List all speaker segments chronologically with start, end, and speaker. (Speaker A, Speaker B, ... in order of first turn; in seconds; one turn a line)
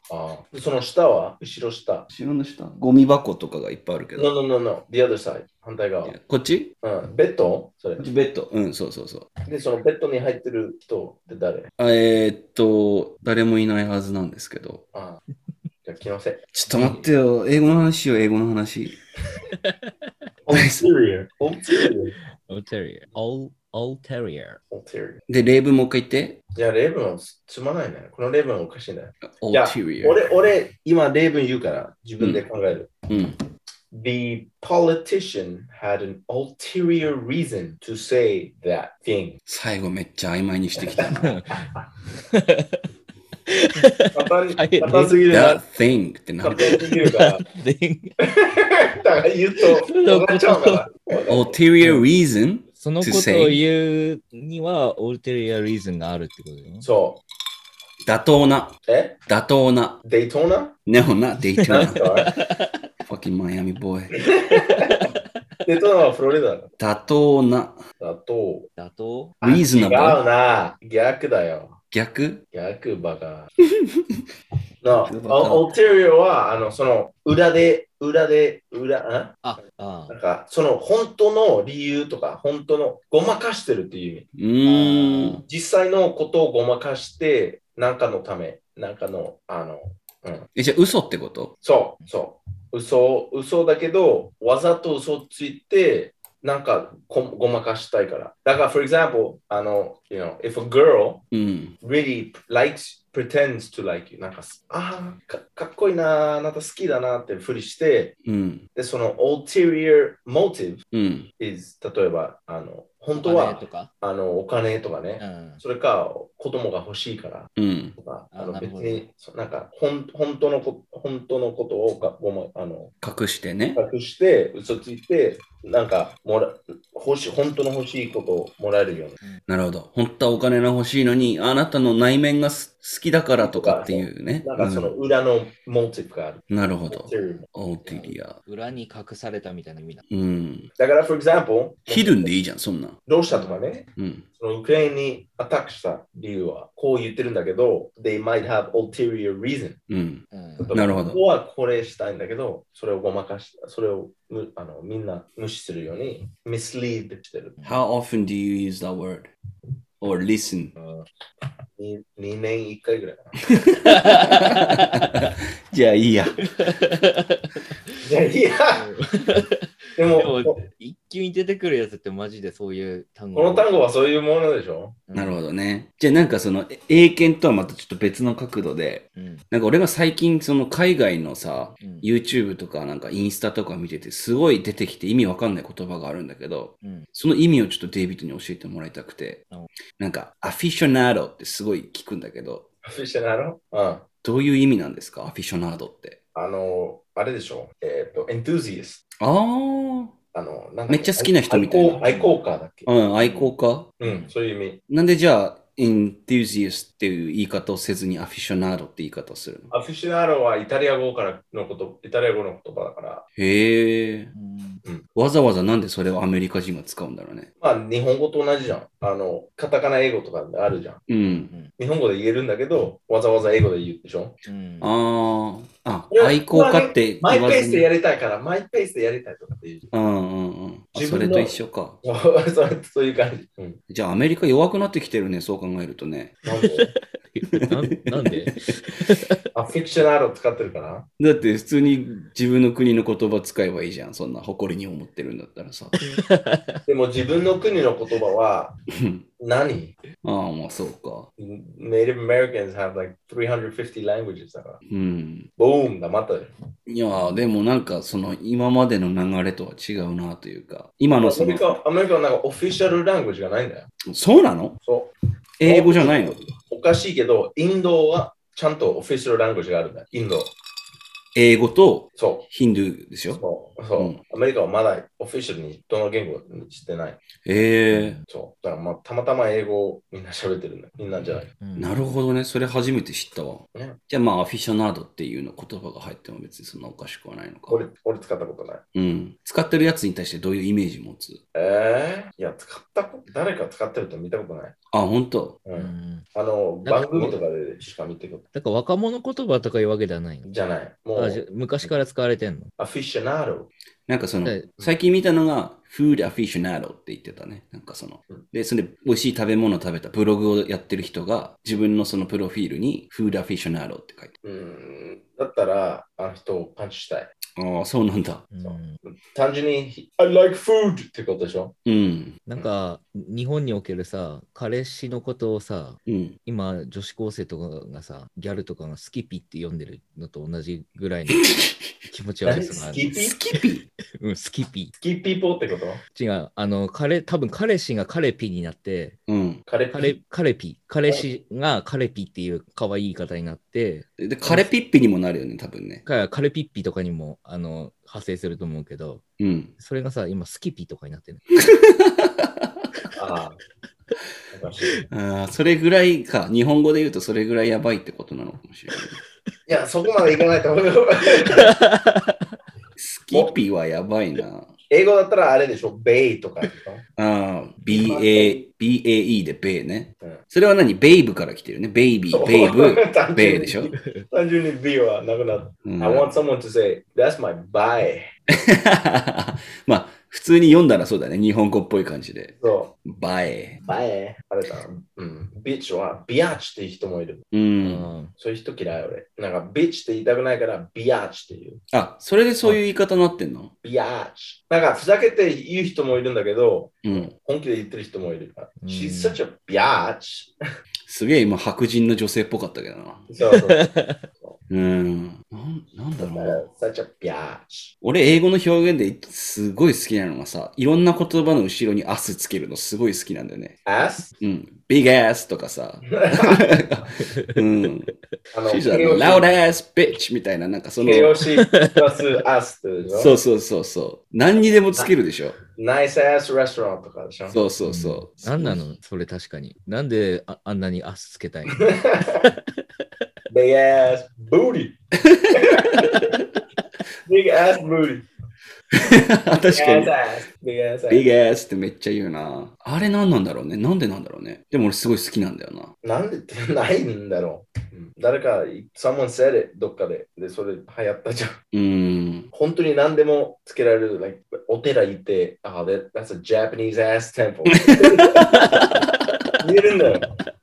Speaker A: 0.1-2.1
Speaker B: 2.1-4.3
Speaker A: 4.2-6.1
Speaker B: 6.0-6.7
Speaker A: 6.8-8.1
Speaker B: 8.0-9.3
Speaker A: 9.4-11.7
Speaker B: 11.8-14.8
Speaker A: 14.9-15.2
Speaker A: 15.8-16.4
Speaker B: 16.5-19.0
Speaker C: 16.7-17.0
Speaker C: 19.6-19.9
Speaker A: 20.4-22.1
Speaker B: 20.5-20.9
Speaker C: 22.5-24.6
Speaker A: 24.7-25.2
Speaker B: 25.3-26.4
Speaker A: 26.6-32.9
Speaker B: 29.3-30.2
Speaker B: 33.1-33.4
Speaker A: 33.9-39.4
Speaker B: 39.5-41.4
Speaker C: 41.2-41.6
Speaker C: 42.3-42.8
Speaker C: 43.5-45.2
Speaker A: 44.1-45.6
Speaker B: 45.3-46.9
Speaker A: 46.4-47.4
Speaker C: 46.6-48.1
Speaker A: 48.2-51.6
Speaker C: 49.9-50.9
Speaker B: 51.3-53.6
Speaker C: 52.7-56.9
Speaker A: 56.8-57.2
Speaker B: 58.0-60.0
Speaker A: 58.9-59.2
Speaker A: 60.0-60.8
Speaker B: 60.9-62.0
Speaker C: 61.6-62.7
Speaker A: 61.6-62.3
Speaker B: 63.1-64.2
Speaker A: 64.1-65.0
Speaker C: 64.5-65.1
Speaker A: 65.6-66.7
Speaker B: 66.8-67.8
Speaker A: 68.0-68.7
Speaker C: 68.8-69.3
Speaker A: 69.4-71.8
Speaker B: 69.4-70.2
Speaker B: 71.9-72.4
Speaker A: 72.5-73.5
Speaker B: 73.8-74.2
Speaker A: 74.8-79.4
Speaker B: 75.0-75.7
Speaker C: 79.4-80.1
Speaker A: 80.1-84.3
Speaker B: 84.3-85.4
Speaker C: 84.6-85.4
Speaker A: 85.5-90.5
Speaker B: 90.5-91.5
Speaker A: 91.6-101.2
Speaker B: 101.3-101.7
Speaker A: 101.8-108.1
Speaker B: 108.2-108.6
Speaker A: 108.7-110.8
Speaker B: 110.9-111.3
Speaker A: 111.4-122.9
Speaker C: 113.2-113.9
Speaker C: 115.2-115.6
Speaker B: 117.6-117.9
Speaker C: 118.3-119.0
Speaker B: 123.0-123.8
Speaker A: 123.8-129.2
Speaker B: 129.5-134.9
Speaker A: 133.4-137.4
Speaker B: 136.5-138.4
Speaker C: 137.8-140.0
Speaker B: 140.1-140.7
Speaker A: 140.8-142.3
Speaker B: 141.9-143.0
Speaker A: 143.1-149.8
Speaker C: 143.3-143.8
Speaker B: 144.0-144.2
Speaker B: 149.9-151.2
Speaker C: 150.3-150.7
Speaker A: 150.6-157.6
Speaker B: 157.6-159.3
Speaker B: 160.0-160.7
Speaker A: 160.8-161.0
Speaker A: 161.8-163.4
Speaker B: 163.5-166.4
Speaker C: 163.8-165.1
Speaker C: 166.4-167.9
Speaker A: 168.0-168.8
Speaker C: 168.7-173.7
Speaker A: 170.0-170.6
Speaker A: 173.3-175.0
Speaker C: 175.1-175.4
Speaker B: 175.1-189.4
Speaker C: 179.2-179.4
Speaker C: 181.8-182.1
Speaker C: 186.8-187.1
Speaker B: 190.0-192.7
Speaker A: 192.8-194.1
Speaker B: 194.2-196.2
Speaker A: 196.3-199.0
Speaker B: 199.2-200.1
Speaker A: 200.3-204.8
Speaker B: 200.9-202.2
Speaker B: 202.8-203.9
Speaker C: 204.0-204.3
Speaker B: 204.9-209.7
Speaker A: 209.7-213.2
Speaker B: 213.4-214.3
Speaker C: 214.3-214.8
Speaker B: 215.1-217.5
Speaker A: 217.6-221.0
Speaker B: 221.1-221.5
Speaker A: 221.8-224.4
Speaker C: 224.4-224.9
Speaker B: 224.8-227.9
Speaker A: 226.1-229.9
Speaker B: 229.9-232.0
Speaker A: 230.9-233.8
Speaker B: 233.9-236.4
Speaker A: 236.4-236.9
Speaker C: 236.6-239.4
Speaker B: 237.5-238.3
Speaker A: 239.5-241.1
Speaker B: 241.2-246.0
Speaker C: 246.0-246.8
Speaker A: 246.8-248.7
Speaker B: 248.9-249.2
Speaker A: 249.4-249.9
Speaker B: 250.2-251.3
Speaker A: 251.4-254.8
Speaker B: 254.9-255.5
Speaker A: 255.6-256.5
Speaker B: 256.9-261.6
Speaker A: 261.2-263.9
Speaker B: 264.1-264.8
Speaker A: 264.8-265.1
Speaker B: 265.6-266.4
Speaker A: 265.6-270.5
Speaker B: 271.3-273.4
Speaker A: 272.2-272.5
Speaker A: 273.3-277.2
Speaker B: 277.4-278.2
Speaker C: 277.9-278.2
Speaker A: 278.3-281.5
Speaker C: 281.6-282.0
Speaker B: 281.8-287.8
Speaker A: 283.7-284.0
Speaker A: 287.7-288.8
Speaker B: 288.9-291.4
Speaker A: 291.5-294.8
Speaker B: 294.9-295.6
Speaker A: 295.6-298.4
Speaker C: 295.7-296.2
Speaker C: 296.8-297.4
Speaker C: 298.5-300.5
Speaker A: 300.4-301.9
Speaker C: 301.1-302.7
Speaker A: 302.8-303.7
Speaker B: 304.1-314.3
Speaker A: 314.4-317.3
Speaker B: 317.6-318.4
Speaker C: 318.5-319.0
Speaker A: 318.6-321.7
Speaker B: 321.9-322.4
Speaker C: 322.5-331.5
Speaker B: 326.1-326.4
Speaker B: 331.4-331.9
Speaker C: 332.1-333.1
Speaker A: 332.4-333.4
Speaker B: 333.1-333.8
Speaker C: 334.2-334.9
Speaker A: 335.0-336.0
Speaker C: 336.1-339.2
Speaker B: 339.3-339.6
Speaker A: 339.7-340.1
Speaker C: 339.9-344.7
Speaker B: 344.2-346.0
Speaker C: 346.1-349.2
Speaker B: 349.4-349.7
Speaker C: 349.8-351.4
Speaker B: 351.6-352.8
Speaker A: 353.1-353.6
Speaker A: 354.5-355.1
Speaker B: 355.1-359.2
Speaker A: 359.7-361.8
Speaker C: 361.6-362.3
Speaker B: 363.0-364.7
Speaker A: 364.9-367.0
Speaker B: 367.2-373.9
Speaker A: 367.9-368.6
Speaker A: 372.3-378.3
Speaker B: 375.8-376.3
Speaker B: 378.5-383.8
Speaker A: 382.6-382.9
Speaker A: 383.8-387.4
Speaker B: 387.5-388.1
Speaker C: 387.8-388.3
Speaker A: 388.3-391.8
Speaker B: 391.9-393.7
Speaker A: 393.8-400.5
Speaker B: 397.0-397.3
Speaker C: 398.8-399.4
Speaker B: 401.1-403.3
Speaker A: 403.3-404.6
Speaker C: 403.4-404.2
Speaker B: 404.7-406.6
Speaker A: 406.2-407.9
Speaker B: 408.0-413.8
Speaker A: 413.9-414.3
Speaker B: 414.4-418.1
Speaker A: 416.1-416.6
Speaker C: 417.2-417.6
Speaker A: 418.5-419.6
Speaker B: 418.6-421.4
Speaker A: 421.0-423.3
Speaker C: 421.6-421.9
Speaker B: 423.1-425.6
Speaker A: 425.7-427.6
Speaker B: 427.5-428.7
Speaker C: 427.8-431.9
Speaker A: 431.7-432.5
Speaker A: 433.5-434.9
Speaker B: 435.2-436.3
Speaker A: 435.5-436.4
Speaker A: 437.2-438.2
Speaker B: 438.9-440.1
Speaker A: 439.6-441.3
Speaker B: 441.1-445.9
Speaker A: 446.0-451.6
Speaker B: 451.7-452.5
Speaker A: 452.5-458.4
Speaker B: 457.8-459.1
Speaker C: 458.4-459.1
Speaker A: 459.6-460.3